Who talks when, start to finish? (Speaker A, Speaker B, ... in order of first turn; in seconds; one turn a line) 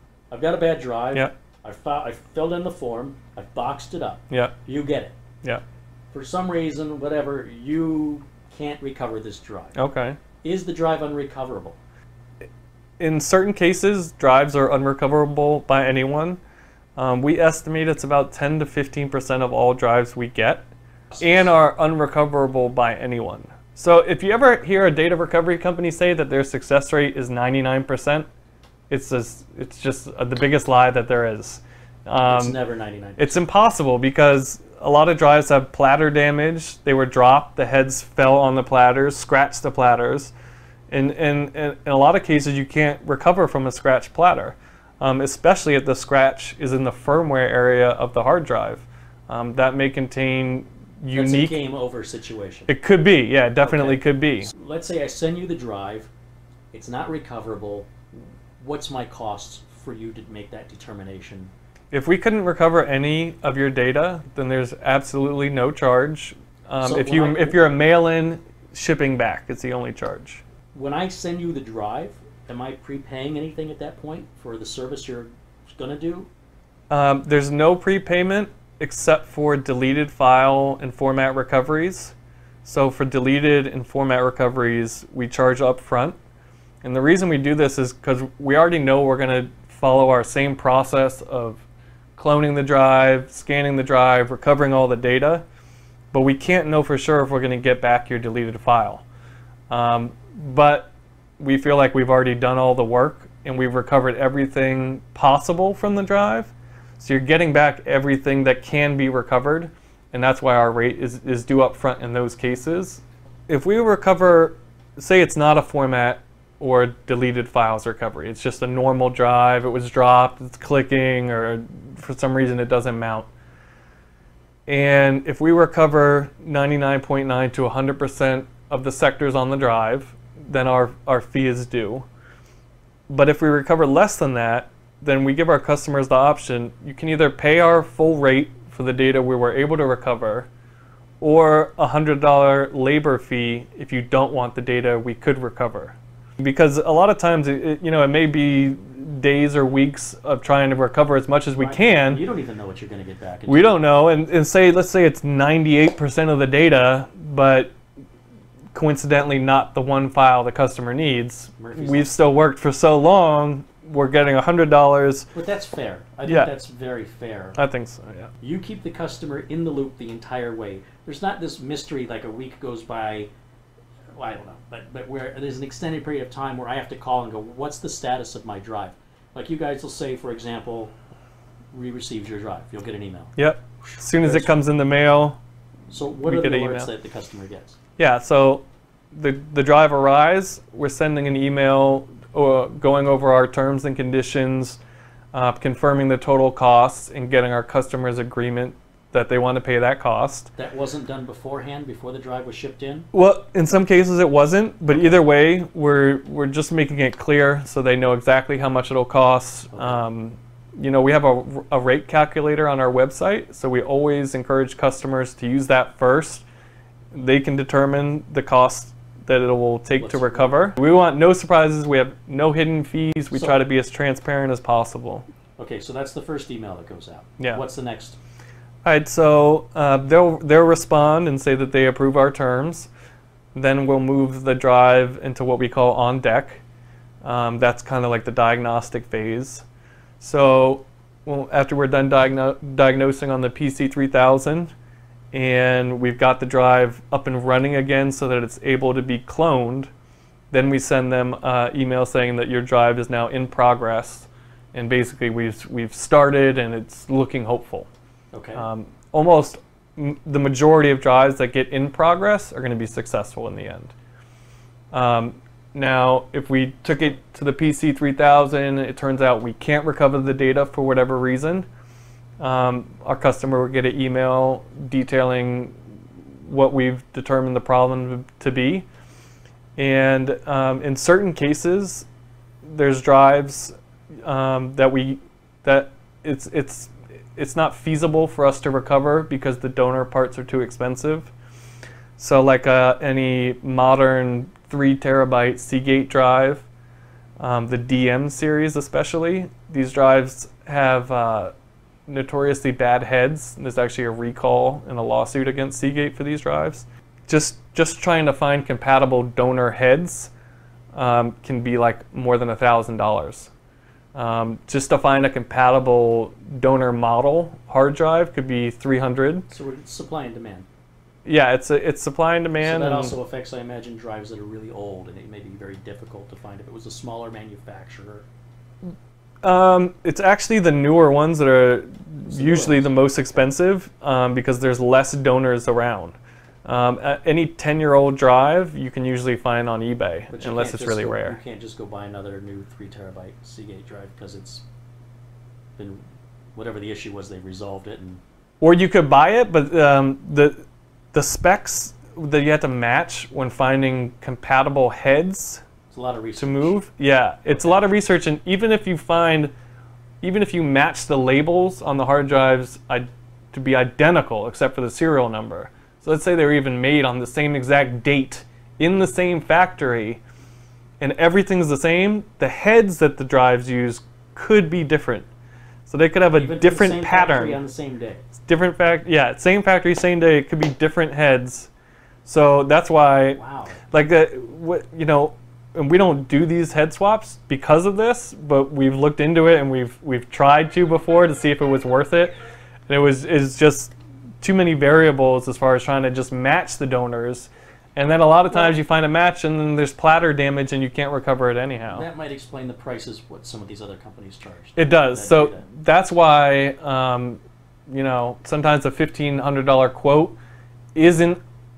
Speaker A: 0.3-5.2
Speaker B: 4.3-4.5
Speaker A: 6.1-9.7
Speaker B: 9.7-10.2
Speaker A: 10.4-11.8
Speaker B: 13.0-16.4
Speaker B: 16.9-20.6
Speaker A: 21.1-21.5
Speaker B: 21.2-28.3
Speaker B: 28.9-32.6
Speaker A: 32.2-33.3
Speaker B: 33.2-40.3
Speaker B: 40.9-51.6
Speaker A: 51.1-52.7
Speaker B: 52.7-54.5
Speaker A: 53.6-56.1
Speaker A: 56.7-57.9
Speaker A: 58.6-61.5
Speaker B: 61.9-70.4
Speaker A: 66.8-67.6
Speaker A: 70.7-76.3
Speaker B: 76.9-86.2
Speaker B: 86.8-91.6
Speaker B: 92.2-95.4
Speaker B: 96.1-99.0
Speaker B: 99.7-123.3
Speaker B: 124.7-132.1
Speaker B: 133.1-140.5
Speaker B: 141.2-152.2
Speaker A: 151.6-153.8
Speaker B: 153.5-157.7
Speaker B: 158.7-165.3
Speaker A: 161.6-162.1
Speaker A: 165.3-167.6
Speaker B: 166.2-166.5
Speaker B: 167.6-168.3
Speaker A: 168.4-173.3
Speaker A: 174.2-180.9
Speaker A: 181.7-184.5
Speaker B: 183.4-185.4
Speaker A: 185.9-187.8
Speaker B: 186.2-186.9
Speaker B: 188.0-194.8
Speaker B: 195.3-200.5
Speaker A: 200.6-203.1
Speaker B: 203.1-216.4
Speaker A: 209.7-210.0
Speaker B: 217.1-225.2
Speaker A: 220.0-220.5
Speaker A: 225.6-228.2
Speaker B: 228.8-232.9
Speaker B: 233.5-236.6
Speaker B: 237.2-239.6
Speaker B: 240.2-244.7
Speaker B: 245.3-249.9
Speaker B: 250.5-257.9
Speaker A: 258.3-258.6
Speaker B: 258.5-263.9
Speaker B: 264.9-271.7
Speaker B: 272.4-275.8
Speaker B: 276.4-278.9
Speaker B: 279.8-282.1
Speaker B: 282.6-291.3
Speaker B: 292.2-296.7
Speaker B: 297.4-301.5
Speaker B: 302.1-310.3
Speaker B: 310.9-313.5
Speaker B: 314.1-319.4
Speaker A: 319.5-320.7
Speaker B: 321.2-323.1
Speaker A: 322.6-328.2
Speaker B: 329.4-341.4
Speaker A: 332.2-333.4
Speaker A: 340.3-344.6
Speaker A: 345.8-346.0
Speaker A: 346.6-348.2
Speaker B: 348.6-350.6
Speaker B: 351.1-355.6
Speaker A: 355.9-356.8
Speaker B: 356.4-359.5
Speaker A: 357.5-357.8
Speaker B: 360.2-370.2
Speaker B: 371.0-375.3
Speaker B: 375.9-377.6
Speaker A: 376.3-378.2
Speaker B: 378.4-381.7
Speaker B: 382.2-383.4
Speaker A: 383.3-383.8
Speaker B: 383.9-392.3
Speaker B: 392.9-402.1
Speaker A: 401.9-405.6
Speaker B: 404.8-410.4
Speaker B: 410.9-411.4